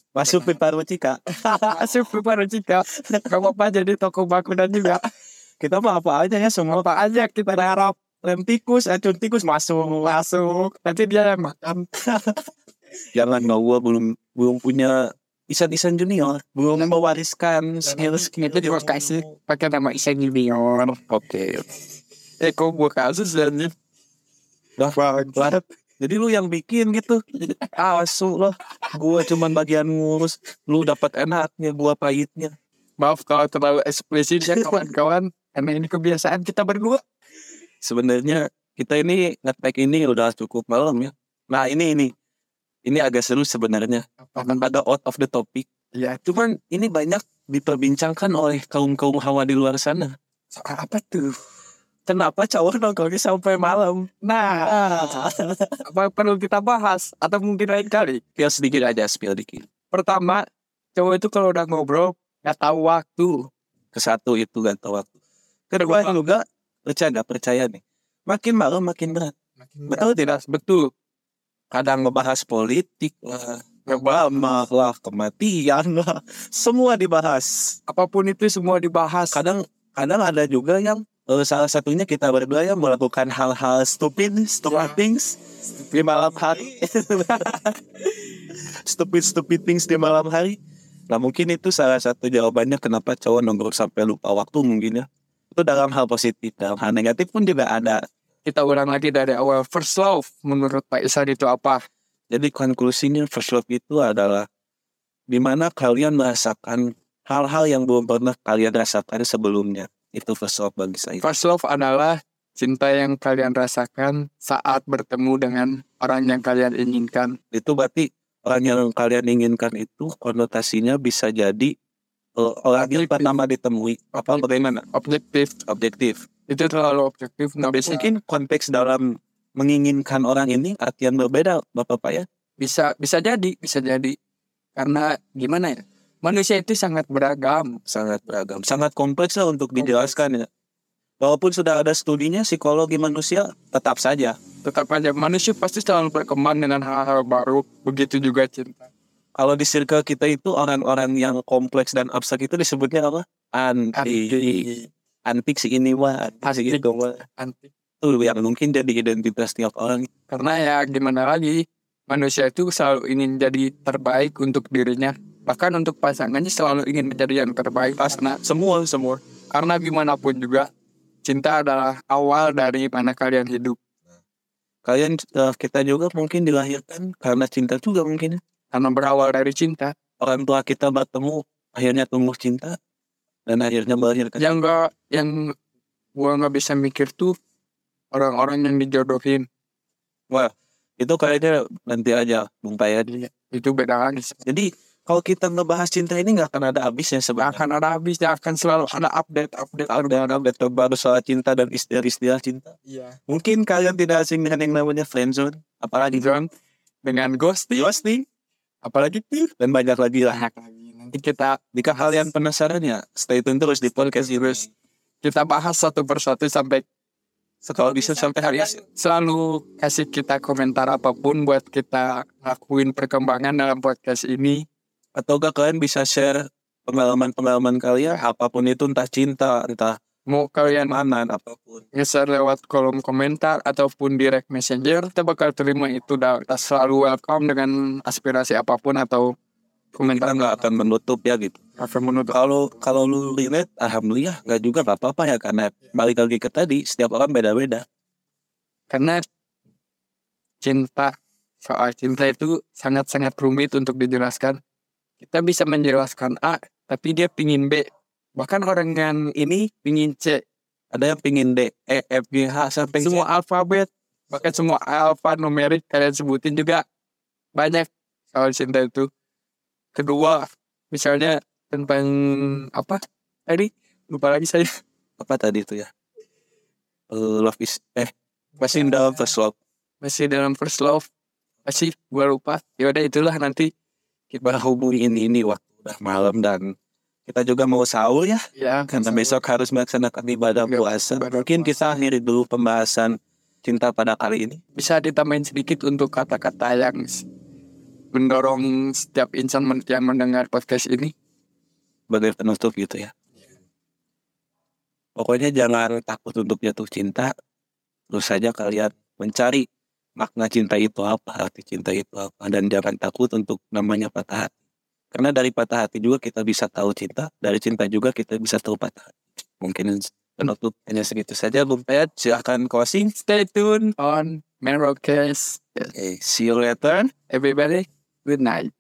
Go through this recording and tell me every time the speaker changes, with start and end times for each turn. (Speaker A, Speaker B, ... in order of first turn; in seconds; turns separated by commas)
Speaker A: 0.1-2.0, Speaker B: 1.5-5.1, Speaker A: 2.9-3.4, Speaker A: 5.6-6.9, Speaker B: 6.8-8.0, Speaker A: 8.1-10.2, Speaker B: 10.1-11.9, Speaker A: 12.0-12.4, Speaker A: 13.1-19.3, Speaker B: 17.9-21.0, Speaker A: 21.1-21.7, Speaker B: 22.4-23.7, Speaker A: 24.8-32.5, Speaker B: 25.0-25.6, Speaker B: 33.0-37.0, Speaker A: 37.8-42.1, Speaker A: 42.9-45.7, Speaker B: 44.2-44.6, Speaker B: 46.0-46.2, Speaker A: 46.2-50.1, Speaker B: 50.5-51.4, Speaker A: 52.1-55.8, Speaker B: 54.2-54.8, Speaker B: 55.8-58.2, Speaker A: 58.4-59.7, Speaker B: 59.9-63.5, Speaker A: 63.9-65.1, Speaker A: 65.7-69.3, Speaker B: 65.8-66.1, Speaker B: 69.6-70.9, Speaker A: 69.9-70.3, Speaker A: 71.7-77.8, Speaker B: 73.9-74.5, Speaker B: 77.9-79.4, Speaker A: 79.3-87.8, Speaker A: 88.5-90.6, Speaker A: 91.1-98.0, Speaker B: 98.5-101.8, Speaker A: 102.3-104.5, Speaker A: 105.3-111.2, Speaker B: 111.2-117.4, Speaker A: 117.5-121.7, Speaker A: 122.4-124.9, Speaker B: 122.9-123.3, Speaker B: 124.4-125.6, Speaker A: 125.7-126.3, Speaker B: 126.5-128.1, Speaker A: 127.8-132.2, Speaker B: 132.6-134.2, Speaker B: 134.8-137.8, Speaker A: 137.9-140.5, Speaker B: 139.8-140.1, Speaker A: 141.2-144.4, Speaker B: 144.6-148.9, Speaker A: 149.4-154.7, Speaker B: 153.9-154.9, Speaker A: 155.3-157.2, Speaker B: 156.5-156.8, Speaker B: 157.4-157.7, Speaker A: 158.0-160.1, Speaker B: 160.3-168.4, Speaker A: 168.4-169.2, Speaker B: 169.5-170.7, Speaker B: 171.2-173.8, Speaker A: 174.8-178.4, Speaker B: 178.7-179.9, Speaker A: 180.2-182.8, Speaker A: 183.5-184.5, Speaker B: 184.4-185.6, Speaker B: 186.2-187.4, Speaker B: 188.1-189.5, Speaker A: 190.3-193.1, Speaker B: 193.1-194.4, Speaker A: 194.4-197.6, Speaker B: 197.4-200.1, Speaker A: 199.9-202.8, Speaker B: 202.9-203.2, Speaker A: 203.3-206.3, Speaker B: 206.1-206.5, Speaker B: 207.0-208.0, Speaker A: 207.7-208.2, Speaker B: 208.8-209.5, Speaker A: 209.6-210.4, Speaker B: 210.3-211.6, Speaker A: 211.7-214.7, Speaker B: 214.3-214.6, Speaker B: 215.2-216.8, Speaker A: 217.7-218.8, Speaker B: 218.2-224.7, Speaker A: 225.2-230.0, Speaker B: 230.3-231.0, Speaker A: 230.7-231.8, Speaker B: 231.9-239.3, Speaker A: 239.9-241.6, Speaker B: 239.9-240.6, Speaker B: 241.8-242.3, Speaker A: 242.3-247.8, Speaker B: 248.9-249.2, Speaker B: 250.6-254.6, Speaker B: 255.2-260.4, Speaker A: 260.9-263.2, Speaker B: 263.0-266.8, Speaker B: 267.6-269.1, Speaker B: 269.9-274.7, Speaker A: 275.2-275.9, Speaker A: 277.1-279.6, Speaker B: 280.0-281.1, Speaker B: 281.7-283.7, Speaker A: 284.3-286.7, Speaker A: 287.3-294.6, Speaker B: 288.6-289.4, Speaker B: 290.6-291.7, Speaker B: 294.8-297.3, Speaker B: 298.1-301.1, Speaker A: 302.1-303.1, Speaker A: 305.2-307.3, Speaker A: 308.1-309.7, Speaker A: 310.2-314.5, Speaker A: 315.1-323.1, Speaker B: 323.1-325.9, Speaker A: 325.9-327.1, Speaker B: 327.3-328.7